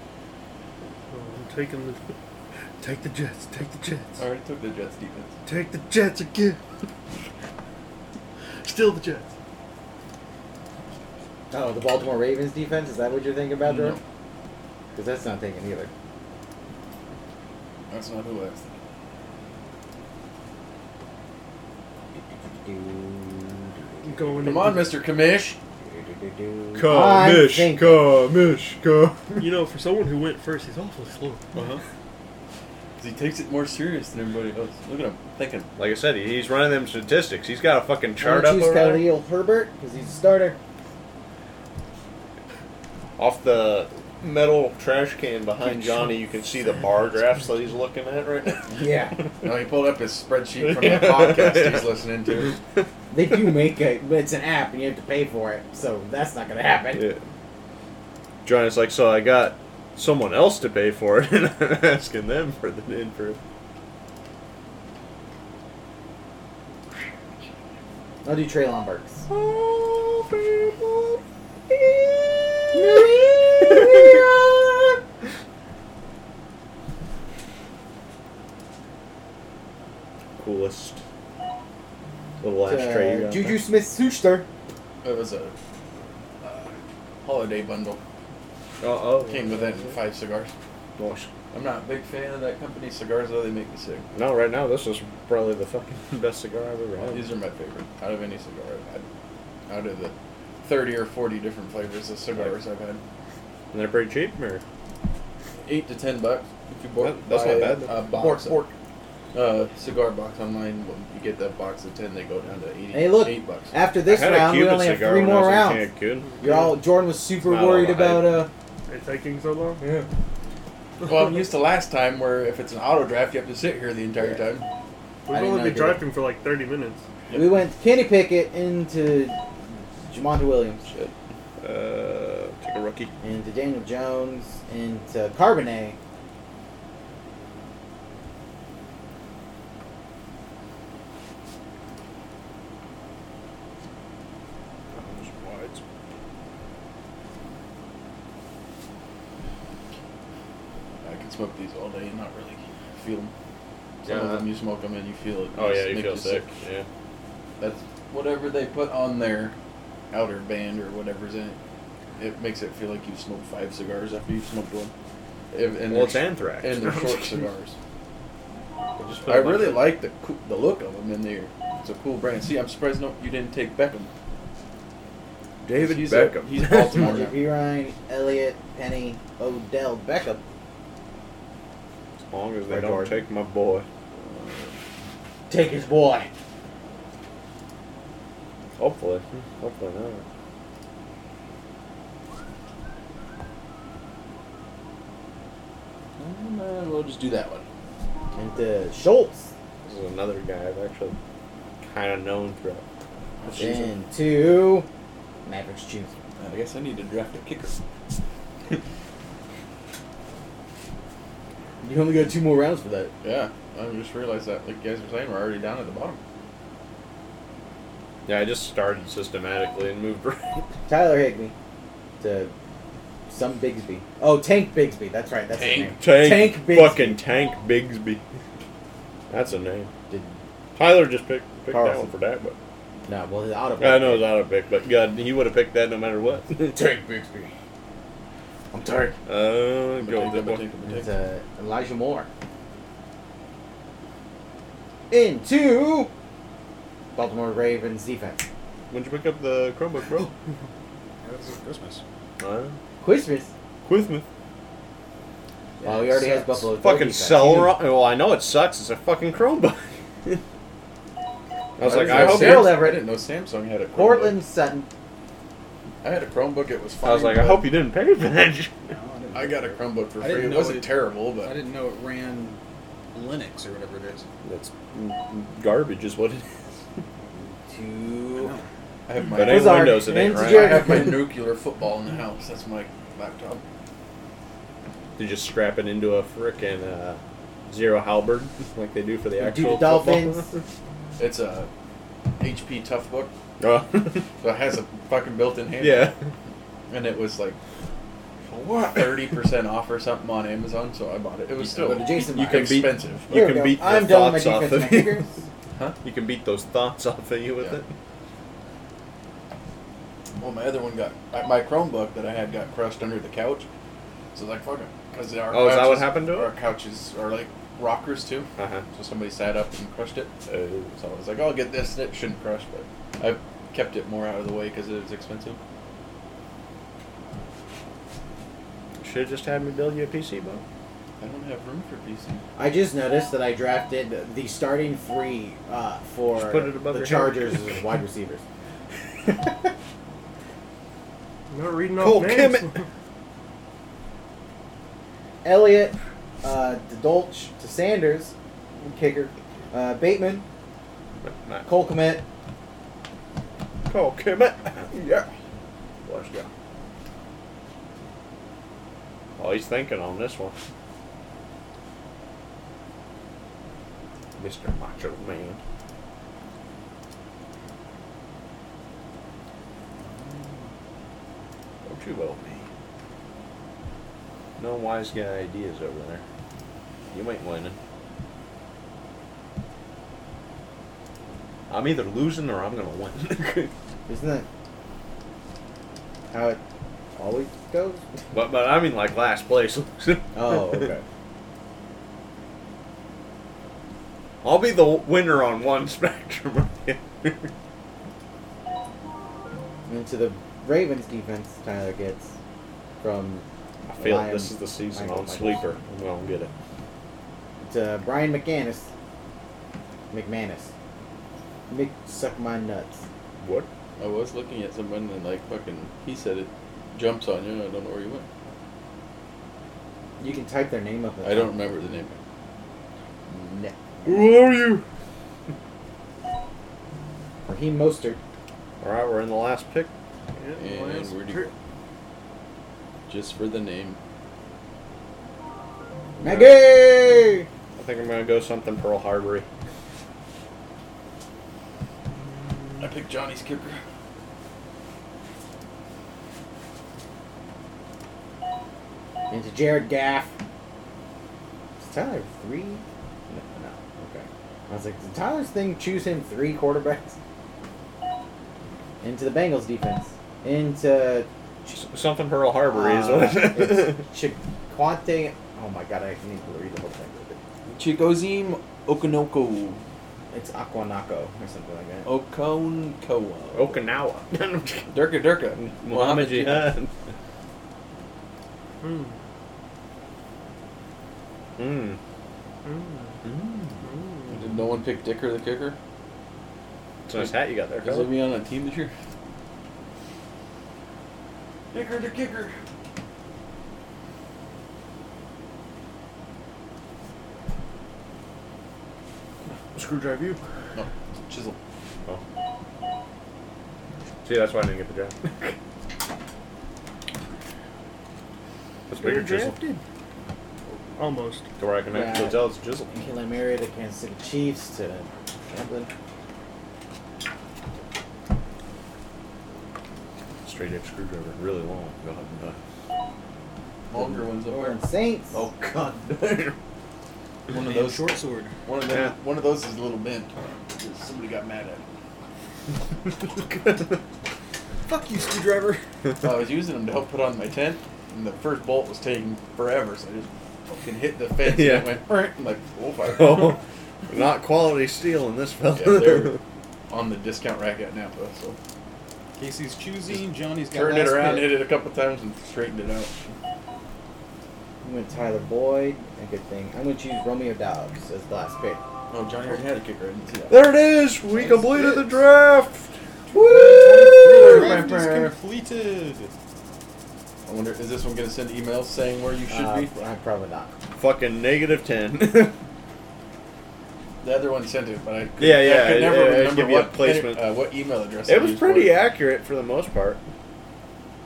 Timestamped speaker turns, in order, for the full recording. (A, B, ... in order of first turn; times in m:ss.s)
0:01.1-0:02.0 A
0:02.8-0:04.2 A
0:04.2-0:05.3 B
0:05.5-0:06.6 A
0:08.6-0:09.3 A
0:11.5-0:14.0 C
0:13.6-0:14.0 B
0:15.0-0:15.9 C
0:17.9-0:18.8 B
0:22.1-0:24.7 C
0:24.1-0:25.0 A
0:24.4-0:25.6 B
0:25.8-0:28.0 C
0:26.8-0:29.4 D
0:29.4-0:31.5 A
0:31.5-0:31.8 B
0:33.0-0:35.7 B
0:35.8-0:39.0 D
0:38.2-0:40.6 C
0:43.2-0:48.7 D
0:48.7-0:49.2 C
0:49.4-0:52.6 B
0:50.6-0:51.9 D
0:53.1-0:57.1 C
0:57.0-0:57.2 D
0:58.4-1:03.4 D
1:08.2-1:09.3 C
1:09.3-1:14.2 D
1:12.7-1:14.7 C
1:20.4-1:21.0 D
1:22.4-1:23.6 D
1:22.6-1:24.5 C
1:25.0-1:25.5 B
1:26.4-1:28.0 B
1:28.8-1:29.9 D
1:29.3-1:30.5 B
1:31.0-1:31.3 D
1:31.5-1:34.1 B
1:34.1-1:37.3 D
1:37.1-1:39.0 B
1:39.7-1:43.0 B
1:43.7-1:44.6 D
1:45.6-1:48.6 B
1:47.0-1:48.0 D
1:48.1-1:48.7 C
1:49.3-1:53.7 B
1:52.9-1:55.9 C
1:54.1-1:56.4 D
1:56.4-1:58.5 C
1:57.4-1:58.4 D
1:58.9-1:59.8 A
1:59.8-2:00.1 B
2:01.0-2:04.7 B
2:05.3-2:07.0 A
2:05.3-2:06.0 C
2:07.3-2:07.6 B
2:07.3-2:09.4 C
2:10.1-2:10.8 C
2:10.9-2:11.1 B
2:11.6-2:13.1 D
2:13.2-2:16.0 C
2:24.9-2:25.8 D
2:31.0-2:33.3 B
2:34.0-2:34.5 D
2:34.0-2:36.5 B
2:35.5-2:36.9 D
2:37.6-2:39.5 B
2:40.1-2:41.6 B
2:42.2-2:44.9 B
2:45.5-2:47.8 B
2:45.9-2:47.2 D
2:49.0-2:50.0 D
2:49.2-2:54.1 B
2:55.6-2:56.9 D
2:55.8-2:57.4 B
2:56.8-3:00.4 C
3:02.3-3:03.9 D
3:02.7-3:03.2 C
3:04.1-3:04.8 B
3:05.5-3:06.3 C
3:08.8-3:10.2 D
3:16.2-3:17.6 B
3:18.4-3:19.5 C
3:19.8-3:21.2 D
3:21.8-3:22.8 D
3:23.4-3:23.9 B
3:23.6-3:24.9 C
3:25.4-3:26.2 C
3:26.4-3:27.8 B
3:31.8-3:33.1 C
3:33.2-3:36.2 B
3:38.3-3:40.7 D
3:40.9-3:41.5 C
3:42.2-3:42.5 C
3:43.3-3:47.2 C
3:45.5-3:46.0 B
3:46.0-3:48.2 D
3:49.3-3:49.9 D
3:50.1-3:50.4 C
3:50.8-3:52.6 D
3:51.7-3:52.1 C
3:53.1-3:54.3 C
3:53.8-3:56.7 D
3:56.6-3:57.5 C
3:58.7-3:59.2 C
3:59.3-4:00.7 D
4:00.0-4:01.1 B
4:00.9-4:02.3 C
4:05.1-4:06.1 C
4:07.2-4:08.4 C
4:08.9-4:10.3 D
4:11.2-4:12.0 E
4:12.4-4:12.8 D
4:13.0-4:13.5 C
4:13.8-4:14.2 D
4:15.8-4:17.8 C
4:15.9-4:16.1 B
4:16.7-4:20.4 D
4:21.8-4:22.9 D
4:21.8-4:24.4 B
4:21.8-4:23.1 C
4:23.9-4:24.9 C
4:26.0-4:27.7 B
4:27.0-4:28.8 D
4:28.9-4:32.6 E
4:29.3-4:31.6 B
4:33.1-4:34.2 E
4:34.4-4:36.4 D
4:37.5-4:38.6 C
4:38.3-4:38.7 E
4:39.1-4:43.6 B
4:39.3-4:40.9 D
4:39.3-4:41.2 C
4:45.2-4:50.6 D
4:49.4-4:50.4 C
4:51.2-4:51.7 B
4:52.4-4:53.3 B
4:53.6-4:54.3 D
4:54.4-4:56.2 B
4:55.8-4:56.2 D
4:56.9-4:57.6 B
4:58.5-5:03.3 B
5:01.6-5:05.3 C
5:02.3-5:05.3 D
5:06.0-5:07.9 D
5:10.4-5:13.7 B
5:14.3-5:20.3 B
5:15.5-5:16.5 D
5:18.6-5:18.8 D
5:20.5-5:20.9 D
5:21.0-5:25.6 B
5:29.0-5:30.6 D
5:31.2-5:32.4 B
5:32.6-5:38.4 C
5:36.4-5:37.6 D
5:41.5-5:42.9 A
5:42.0-5:42.7 D
5:45.4-5:50.4 C
5:51.2-5:51.6 D
5:51.6-5:52.2 C
5:53.9-5:55.3 D
5:56.1-5:56.5 D
5:59.4-6:00.6 D
6:04.4-6:05.6 D
6:11.9-6:12.7 D
6:14.6-6:16.2 D
6:17.1-6:17.8 D
6:21.7-6:23.7 D
6:24.1-6:24.5 C
6:26.3-6:26.6 C
6:27.2-6:28.3 C
6:28.3-6:30.9 D
6:30.3-6:31.0 C
6:34.4-6:37.5 D
6:39.9-6:42.3 C
6:43.0-6:43.4 C
6:43.9-6:46.5 D
6:44.0-6:45.6 C
6:47.6-6:48.9 C
6:50.1-6:50.7 C
6:51.7-6:53.0 C
6:53.4-6:53.7 D
6:54.0-6:58.3 B
7:00.2-7:01.6 C
7:01.2-7:02.2 B
7:03.3-7:04.4 C
7:04.1-7:04.9 D
7:07.5-7:08.2 C
7:08.8-7:09.9 D
7:10.4-7:11.5 A
7:10.6-7:11.5 B
7:13.1-7:14.0 B
7:16.2-7:16.8 D
7:16.2-7:17.5 C
7:17.8-7:19.5 D
7:22.8-7:23.8 B
7:29.3-7:30.3 C
7:31.8-7:37.2 C
7:39.0-7:41.8 C
7:41.8-7:44.0 D
7:42.6-7:47.4 C
7:47.7-7:49.8 B
7:50.3-7:52.1 C
7:52.0-7:53.8 B
7:53.5-7:55.0 D
7:54.9-7:56.8 B
7:55.6-7:56.9 D
7:58.8-7:59.2 A
8:01.6-8:02.0 D
8:02.6-8:03.2 A
8:03.2-8:03.8 D
8:03.8-8:04.4 A
8:04.3-8:05.8 B
8:07.1-8:08.2 D
8:07.2-8:08.9 B
8:11.7-8:12.6 B
8:19.7-8:20.4 D
8:20.8-8:21.6 B
8:24.2-8:25.6 D
8:28.9-8:29.7 D
8:29.0-8:29.8 A
8:31.0-8:31.5 A
8:31.6-8:32.9 D
8:31.9-8:35.9 C
8:40.4-8:42.6 D
8:43.9-8:44.8 B
8:44.4-8:45.4 C
8:45.3-8:46.6 D
8:47.5-8:48.1 B
8:47.5-8:48.5 E
8:48.6-8:51.8 B
8:53.2-8:54.0 D
8:54.9-8:55.8 E
8:56.2-9:03.6 B
9:01.4-9:02.2 D
9:03.1-9:06.4 D
9:05.8-9:06.4 B
9:06.9-9:08.6 B
9:09.4-9:11.6 E
9:10.1-9:13.2 B
9:14.8-9:18.8 C
9:19.1-9:20.7 B
9:20.5-9:22.9 D
9:21.3-9:22.2 B
9:23.3-9:25.7 E
9:23.3-9:24.8 C
9:24.3-9:26.3 B
9:27.5-9:29.9 B
9:29.5-9:30.7 C
9:31.0-9:32.6 D
9:34.2-9:39.0 B
9:35.4-9:37.4 D
9:38.3-9:40.2 D